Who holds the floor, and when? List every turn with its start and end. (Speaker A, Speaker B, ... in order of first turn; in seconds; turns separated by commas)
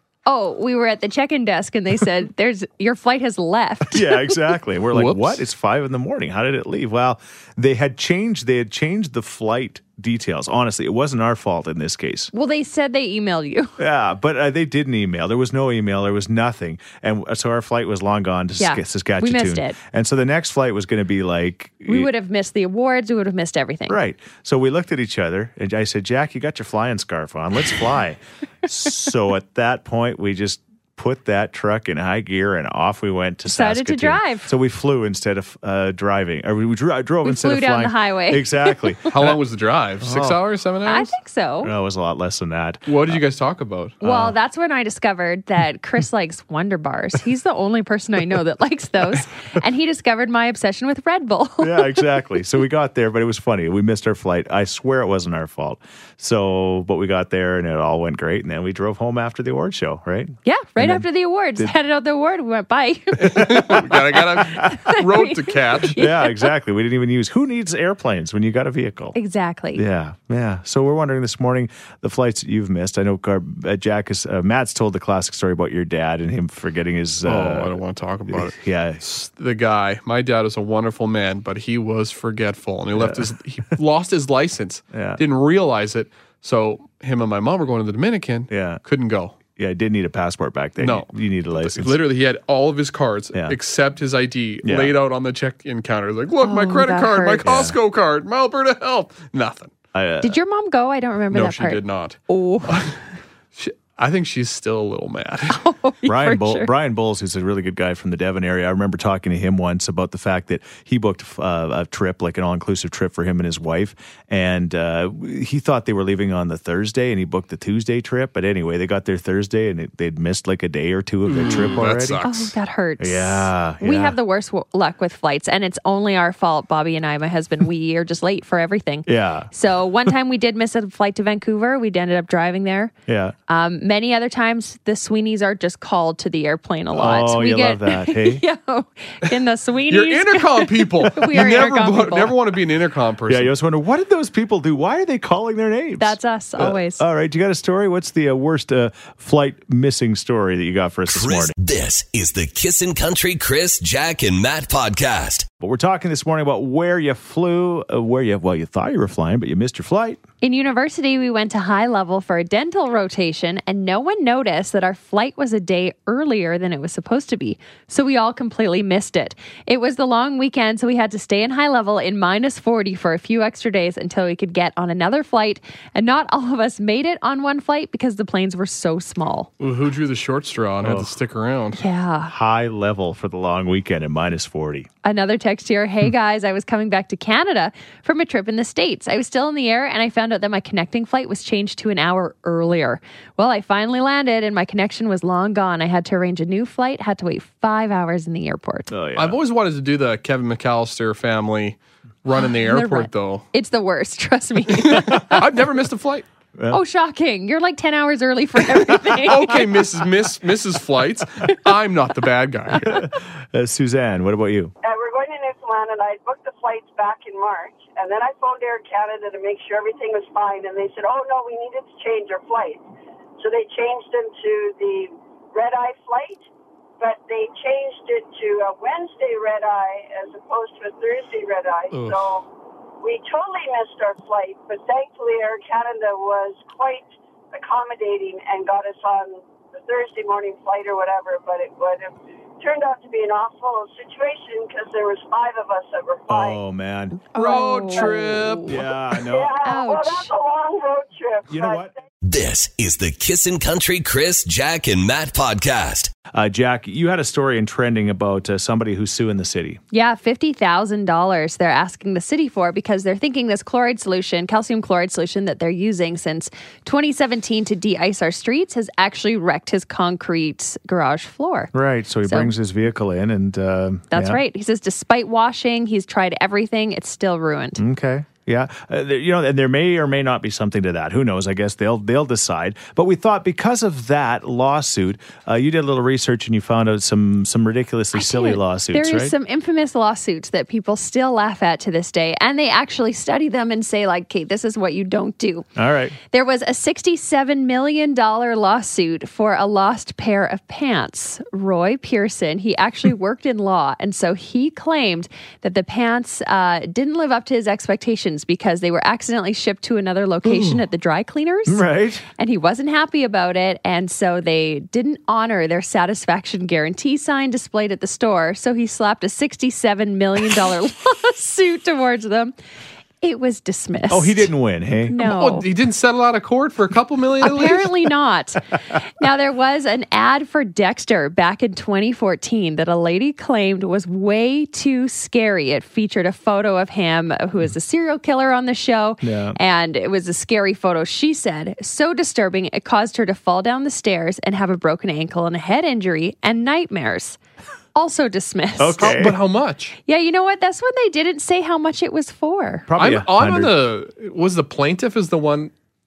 Speaker A: 0.2-4.3, Speaker B: 3.9-12.3, Speaker C: 4.9-5.4, Speaker A: 12.3-13.7, Speaker B: 13.8-22.1, Speaker A: 18.6-19.8, Speaker A: 21.9-24.0, Speaker B: 23.9-39.4, Speaker A: 33.5-34.5, Speaker A: 37.2-39.0, Speaker C: 39.1-41.1, Speaker B: 40.0-40.4, Speaker A: 40.8-41.7, Speaker B: 41.6-43.2, Speaker C: 42.9-44.0, Speaker B: 44.0-44.4, Speaker A: 44.0-52.0, Speaker B: 51.6-61.7, Speaker A: 60.4-66.5, Speaker C: 63.2-66.0, Speaker B: 65.9-69.2, Speaker A: 69.1-69.8, Speaker B: 69.7-77.7, Speaker C: 77.2-89.4, Speaker B: 78.3-79.0, Speaker B: 82.9-83.2, Speaker B: 84.9-85.2, Speaker B: 88.5-88.8, Speaker B: 89.5-92.0, Speaker C: 90.8-99.7, Speaker B: 94.6-94.9, Speaker A: 96.4-97.5, Speaker B: 97.4-97.8, Speaker B: 99.9-100.4, Speaker A: 100.2-102.8, Speaker C: 101.3-103.0, Speaker C: 103.5-105.6, Speaker A: 105.6-106.7, Speaker B: 106.0-122.2, Speaker C: 121.2-122.5, Speaker A: 122.2-132.9, Speaker B: 123.0-124.2, Speaker B: 129.1-129.5, Speaker B: 133.1-133.3, Speaker A: 133.5-142.3, Speaker B: 136.9-138.4, Speaker C: 139.9-143.5, Speaker B: 143.3-151.5, Speaker A: 146.0-147.0, Speaker D: 151.1-155.5, Speaker B: 155.6-160.2, Speaker A: 160.4-179.5, Speaker C: 179.6-181.8, Speaker B: 180.8-181.1, Speaker A: 181.8-182.3, Speaker B: 182.3-184.9, Speaker A: 185.0-198.9, Speaker B: 198.9-199.4, Speaker C: 199.1-203.4, Speaker A: 202.3-205.4, Speaker C: 204.7-206.3, Speaker A: 206.7-209.6, Speaker C: 209.1-213.0, Speaker B: 212.8-214.7, Speaker E: 214.8-222.8, Speaker E: 223.4-226.4, Speaker E: 227.0-232.4, Speaker C: 231.9-232.3, Speaker E: 233.0-246.6, Speaker B: 246.3-247.2, Speaker A: 247.3-248.7, Speaker C: 247.3-248.8, Speaker E: 247.4-248.3, Speaker B: 248.7-249.6, Speaker E: 249.2-251.9, Speaker A: 249.6-250.3, Speaker B: 251.5-251.9, Speaker D: 252.2-256.1, Speaker B: 256.3-259.8, Speaker A: 259.9-271.7, Speaker B: 271.7-274.4, Speaker A: 272.2-272.5, Speaker A: 274.1-277.8, Speaker B: 277.8-289.3, Speaker A: 288.1-295.7, Speaker B: 295.8-296.1, Speaker A: 296.3-311.8, Speaker B: 310.4-310.8, Speaker B: 311.7-312.2, Speaker A: 312.4-322.5, Speaker A: 323.2-324.5, Speaker B: 324.1-325.1, Speaker A: 325.1-325.7, Speaker C: 325.2-327.9, Speaker A: 327.4-328.6, Speaker A: 329.2-347.4, Speaker B: 339.2-339.6, Speaker A: 347.9-349.3, Speaker B: 348.8-349.4, Speaker C: 349.0-349.9, Speaker A: 350.1-352.9, Speaker B: 352.9-353.8, Speaker C: 353.0-355.7